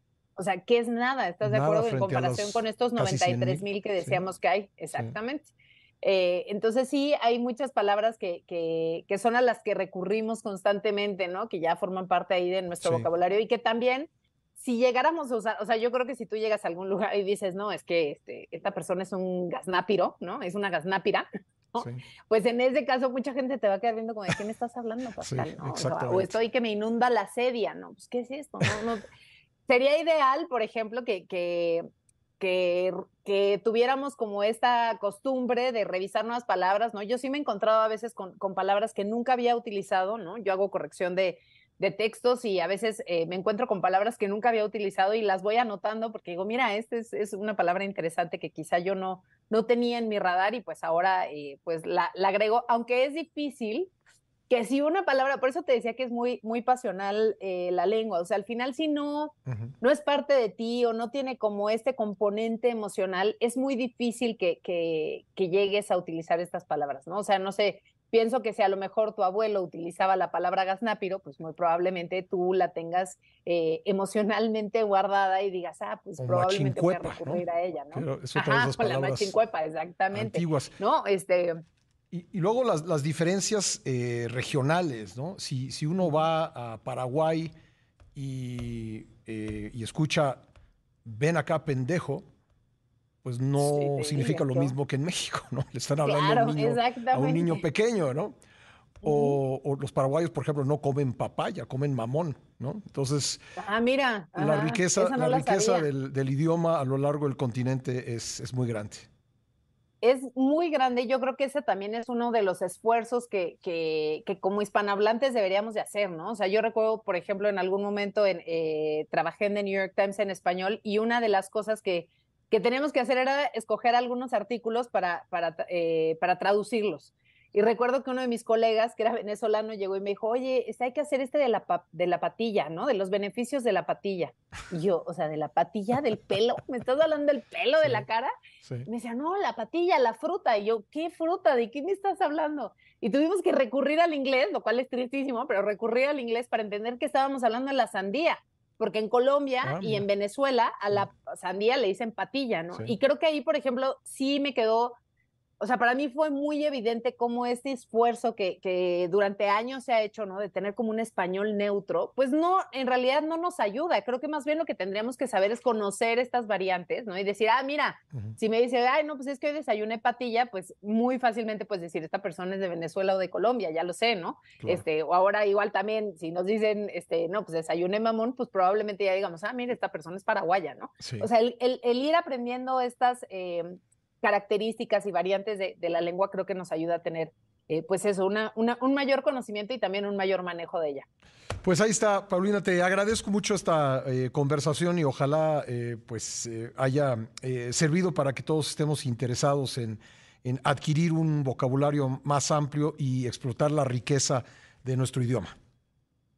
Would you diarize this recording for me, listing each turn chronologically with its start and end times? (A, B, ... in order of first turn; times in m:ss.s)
0:00.4-0:29.0 A
0:01.4-0:04.2 B
0:12.8-0:13.1 B
0:21.8-0:22.0 B
0:25.2-0:26.4 B
0:29.7-0:31.8 A
0:32.4-0:53.9 A
0:54.5-1:21.6 A
1:16.2-1:19.4 B
1:20.1-1:20.7 B
1:22.1-1:27.5 B
1:28.2-1:30.4 B
1:31.0-1:32.2 B
1:33.2-1:38.4 B
1:33.6-1:34.7 A
1:36.0-1:37.6 A
1:39.0-1:43.4 B
1:39.0-1:39.4 A
1:43.6-1:45.9 A
1:44.4-1:49.1 B
1:50.0-2:18.3 A
2:18.6-2:18.9 B
2:18.9-2:35.0 A
2:29.6-2:30.1 B
2:35.6-3:11.0 A
3:01.0-3:01.3 B
3:11.6-3:25.6 B